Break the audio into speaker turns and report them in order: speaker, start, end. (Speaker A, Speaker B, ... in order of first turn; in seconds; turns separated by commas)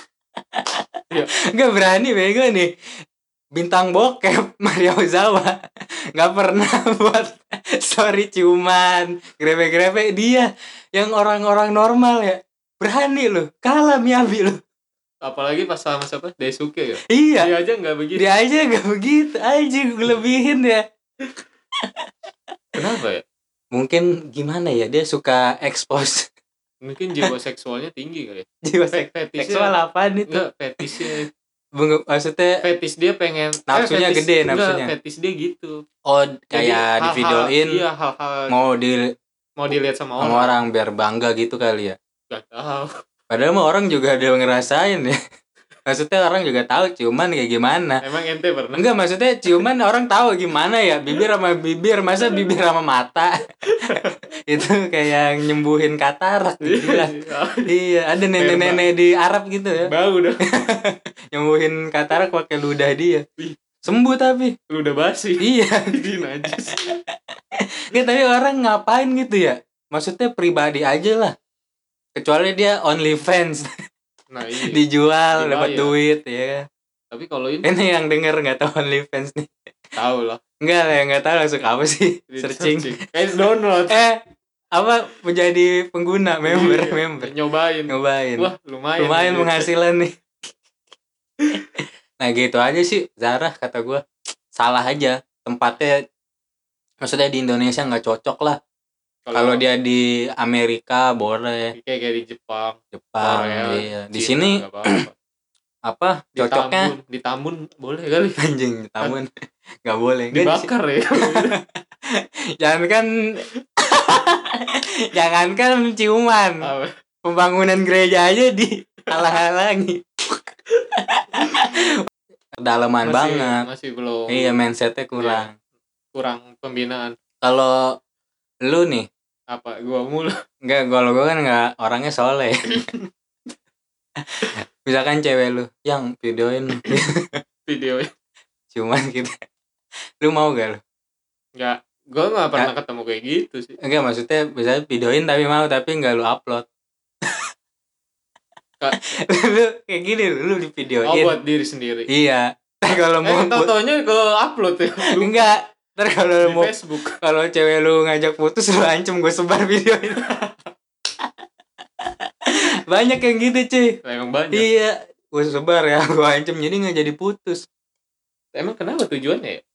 Speaker A: 0.5-0.8, Speaker A: 1.5-2.7, Speaker A: 3.5-5.6, Speaker A: 6.2-14.6, Speaker B: 15.2-18.3, Speaker A: 17.1-17.5, Speaker A: 18.2-20.8, Speaker B: 22.8-23.2, Speaker A: 23.7-26.3, Speaker B: 26.8-29.7, Speaker A: 28.7-31.2, Speaker B: 30.3-31.3, Speaker A: 31.8-32.6, Speaker B: 32.6-35.8, Speaker A: 33.7-34.9, Speaker A: 36.1-37.8, Speaker B: 36.5-38.5, Speaker A: 38.5-39.1, Speaker B: 39.6-40.5, Speaker A: 40.2-42.0, Speaker B: 42.3-42.9, Speaker A: 43.3-45.2, Speaker A: 45.9-48.0, Speaker B: 48.0-48.8, Speaker A: 48.8-53.5, Speaker B: 53.7-54.2, Speaker A: 54.5-59.9, Speaker B: 56.6-57.7, Speaker B: 58.4-58.9, Speaker B: 59.8-60.5, Speaker A: 60.5-63.2, Speaker A: 63.9-64.5, Speaker B: 64.7-66.9, Speaker A: 65.4-67.0, Speaker A: 67.6-71.3, Speaker A: 72.2-73.7, Speaker B: 74.3-74.8, Speaker A: 74.6-76.7, Speaker B: 75.3-76.0, Speaker B: 77.1-77.7, Speaker A: 77.6-79.5, Speaker B: 80.0-80.4, Speaker A: 80.6-83.0, Speaker B: 82.3-84.0, Speaker A: 83.9-84.2, Speaker A: 84.7-87.3, Speaker B: 86.5-89.7, Speaker A: 87.9-90.1, Speaker A: 92.2-94.0, Speaker A: 94.5-96.0, Speaker A: 97.0-98.6, Speaker B: 99.3-99.6, Speaker A: 99.3-101.7, Speaker B: 101.8-105.1, Speaker A: 103.0-105.1, Speaker A: 105.9-106.9, Speaker B: 106.4-108.4, Speaker A: 108.4-109.3, Speaker A: 109.8-110.7, Speaker B: 110.3-111.5, Speaker A: 111.3-116.7, Speaker B: 116.6-116.9, Speaker A: 117.2-120.4, Speaker A: 120.9-121.8, Speaker A: 122.6-123.7, Speaker B: 123.0-124.6, Speaker A: 124.3-125.5, Speaker B: 125.2-125.5, Speaker B: 126.1-127.2, Speaker A: 127.4-128.0, Speaker A: 128.7-129.1, Speaker B: 129.5-130.4, Speaker A: 130.6-132.7, Speaker A: 134.4-137.3, Speaker B: 137.7-138.1, Speaker A: 138.7-139.3, Speaker A: 140.2-140.8, Speaker B: 141.6-143.8, Speaker A: 143.8-146.7, Speaker B: 148.8-149.2, Speaker A: 149.0-151.4, Speaker B: 151.0-152.1, Speaker A: 152.1-153.7, Speaker B: 153.2-155.5, Speaker A: 155.1-156.7, Speaker B: 156.4-157.2, Speaker A: 157.2-160.4, Speaker A: 162.0-164.0, Speaker B: 164.1-164.7, Speaker A: 164.5-167.7, Speaker B: 168.6-169.6